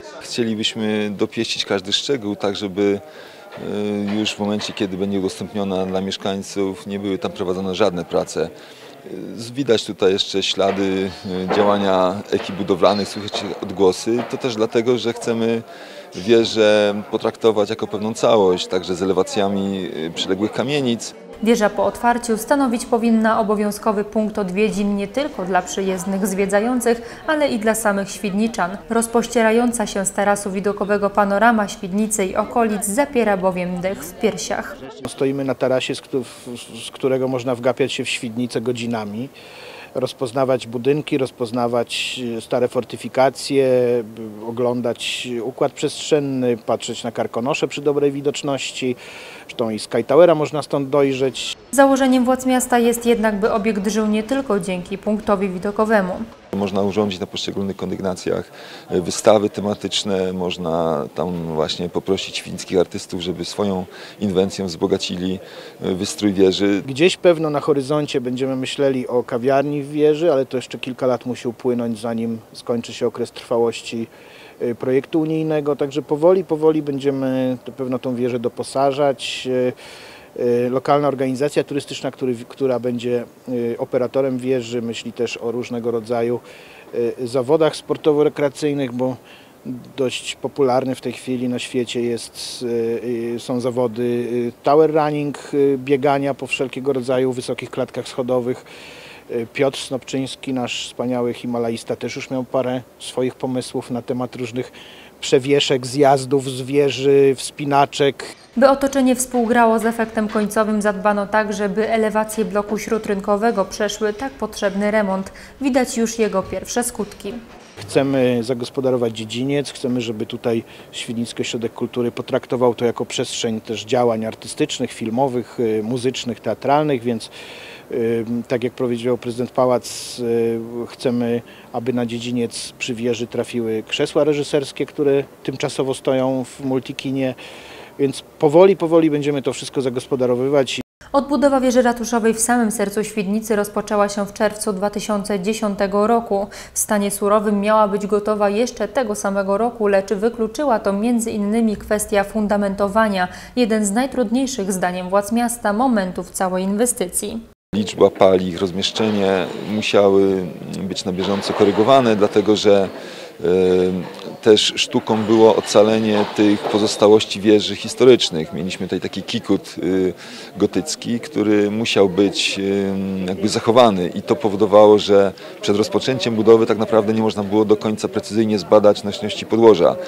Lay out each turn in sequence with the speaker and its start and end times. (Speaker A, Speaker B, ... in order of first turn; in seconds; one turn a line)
Speaker A: 0.2-3.0
Speaker A: 3.6-8.5
Speaker A: 9.0-21.1
Speaker B: 21.4-34.7
Speaker C: 35.0-39.3
Speaker C: 39.9-49.0
Speaker C: 49.5-51.5
Speaker B: 51.7-56.2
Speaker A: 56.5-66.8
Speaker C: 66.8-79.7
Speaker C: 80.3-98.6
Speaker C: 99.3-108.3
Speaker B: 108.5-117.4
Speaker C: 117.8-127.3
Speaker C: 127.9-137.4
Speaker C: 138.0-140.8
Speaker B: 141.1-157.4
Speaker A: 157.7-180.0